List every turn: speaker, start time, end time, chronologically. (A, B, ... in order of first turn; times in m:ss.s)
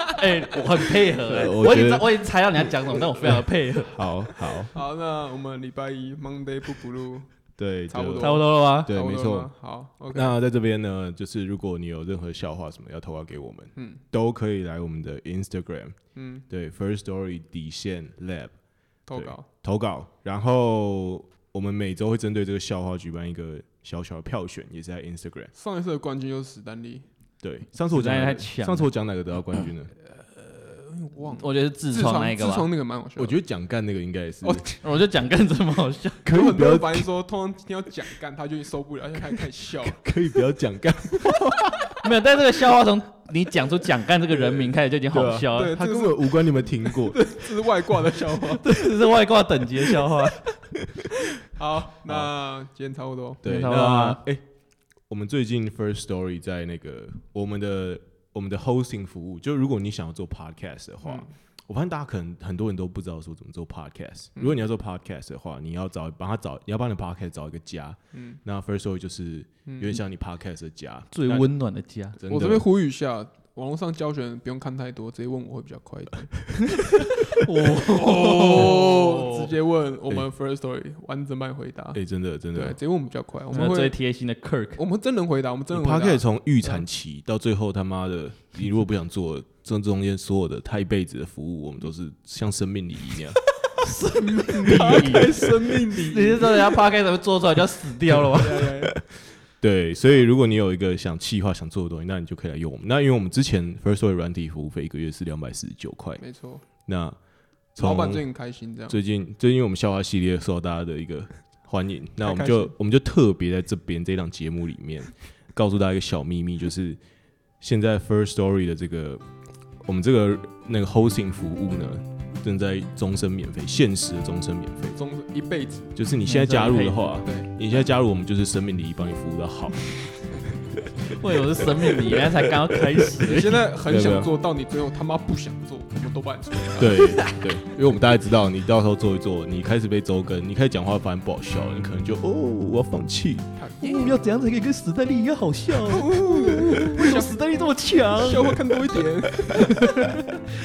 0:00.1-0:03.9 A
0:01.2-0:02.1 B
0:03.2-0:04.8 B
0:04.7-0:07.3 C
0:07.6-0:09.5 B
0:07.9-0:10.4 C
0:08.2-0:08.9 A
0:10.1-0:18.5 B
0:13.7-0:14.0 C
0:16.1-0:16.4 C
0:19.1-0:19.4 C
0:19.1-0:25.5 B
0:25.5-0:27.0 C
0:27.4-0:29.9 B
0:27.9-0:28.9 A
0:30.0-0:33.4 C
0:31.2-0:32.7 A
0:33.2-0:34.6 B
0:34.4-0:34.8 C
0:34.8-0:36.2 A
0:36.2-0:37.0 B
0:36.2-0:40.0 C
0:39.8-0:42.0 B
0:42.0-0:45.8 A
0:45.1-0:47.2 B
0:45.5-0:48.6 C
0:48.6-0:50.4 A
0:51.4-0:53.4 C
0:53.4-0:54.4 B
0:53.4-0:54.2 A
0:55.0-1:11.5 B
1:01.0-1:01.3 C
1:04.4-1:04.6 C
1:08.1-1:08.4 C
1:09.6-1:10.0 C
1:11.1-1:12.2 A
1:12.2-1:12.6 B
1:12.3-1:16.3 C
1:17.3-1:19.3 A
1:17.8-1:24.0 C
1:21.9-1:22.8 B
1:23.5-1:24.8 A
1:24.8-1:26.8 C
1:25.7-1:33.4 B
1:33.8-1:38.7 A
1:34.4-1:36.7 C
1:38.1-1:39.0 C
1:39.1-1:46.2 B
1:46.2-1:46.6 C
1:46.8-1:47.2 B
1:47.7-1:48.3 B
1:47.8-1:49.0 C
1:48.9-1:57.0 B
1:52.2-1:52.7 C
1:57.6-1:59.2 B
1:59.8-2:05.0 B
2:05.0-2:05.9 C
2:05.9-2:10.3 B
2:06.2-2:07.2 A
2:07.2-2:07.5 C
2:11.1-2:13.6 A
2:13.2-2:17.2 C
2:13.9-2:14.3 B
2:16.8-2:23.5 B
2:23.6-2:24.2 C
2:23.8-2:26.0 A
2:25.7-2:26.0 B
2:25.9-2:27.4 C
2:26.7-2:28.4 A
2:28.0-2:30.0 C
2:28.1-2:28.6 B